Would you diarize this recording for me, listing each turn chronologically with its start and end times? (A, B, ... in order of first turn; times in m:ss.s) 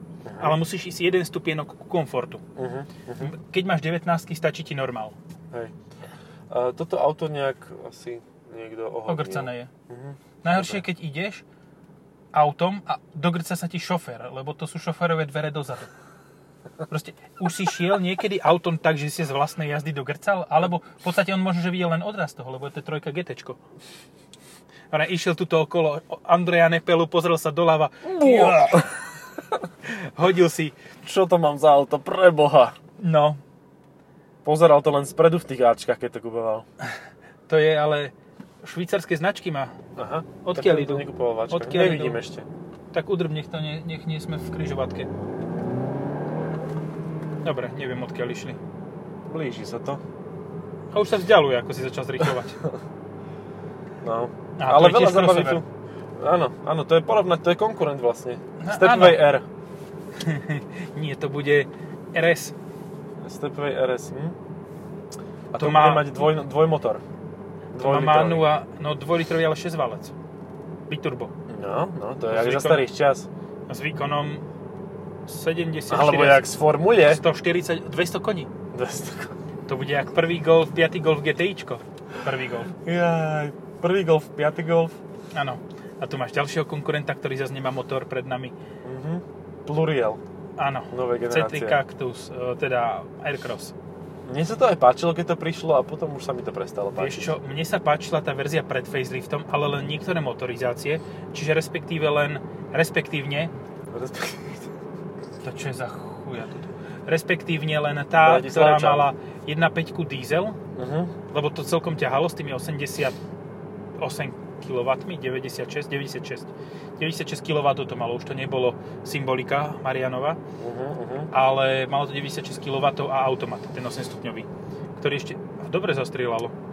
0:00.2-0:00.6 A
0:00.4-0:02.4 B
0:02.6-0:03.3 A
0:03.2-0:05.2 B
0:06.5-0:10.8 A
0:09.1-0:09.7 B
0:10.4-0:11.4 B
0:12.3-0:15.9 B
0:16.9-0:23.6 B
0:24.9-0:28.9 B
0:28.0-0:28.9 A
0:29.9-0:30.8 B
0:31.0-0:32.8 A
0:33.0-0:33.4 B
0:34.4-0:36.6 A
0:37.5-0:39.7 B
0:40.0-0:42.5 A
0:40.4-0:42.2 B
0:42.9-0:45.1 B
0:47.4-0:48.6 B
0:49.3-0:50.0 A
0:50.9-0:52.6 B
0:54.0-0:55.6 A
0:54.6-0:55.6 B
0:56.2-0:59.4 A
0:58.6-0:59.2 B
1:00.2-1:02.5 B
1:03.2-1:04.4 A
1:05.5-1:07.0 A
1:05.6-1:06.2 B
1:07.7-1:08.5 A
1:07.8-1:10.1 B
1:10.9-1:11.3 B
1:11.5-1:13.3 A
1:12.3-1:12.9 B
1:13.7-1:14.4 B
1:15.3-1:18.5 B
1:15.9-1:17.2 A
1:18.7-1:19.4 A
1:19.7-1:22.7 B
1:22.7-1:25.0 A
1:25.3-1:28.5 B
1:28.8-1:30.2 A
1:30.6-1:33.7 B
1:30.9-1:31.8 A
1:34.2-1:37.4 A
1:37.0-1:43.5 B
1:43.9-1:44.7 A
1:45.4-1:50.6 B
1:48.2-1:49.1 A
1:50.7-1:51.1 A
1:51.3-1:53.2 B
1:54.0-2:00.4 B
2:00.6-2:01.3 A
2:01.3-2:06.5 B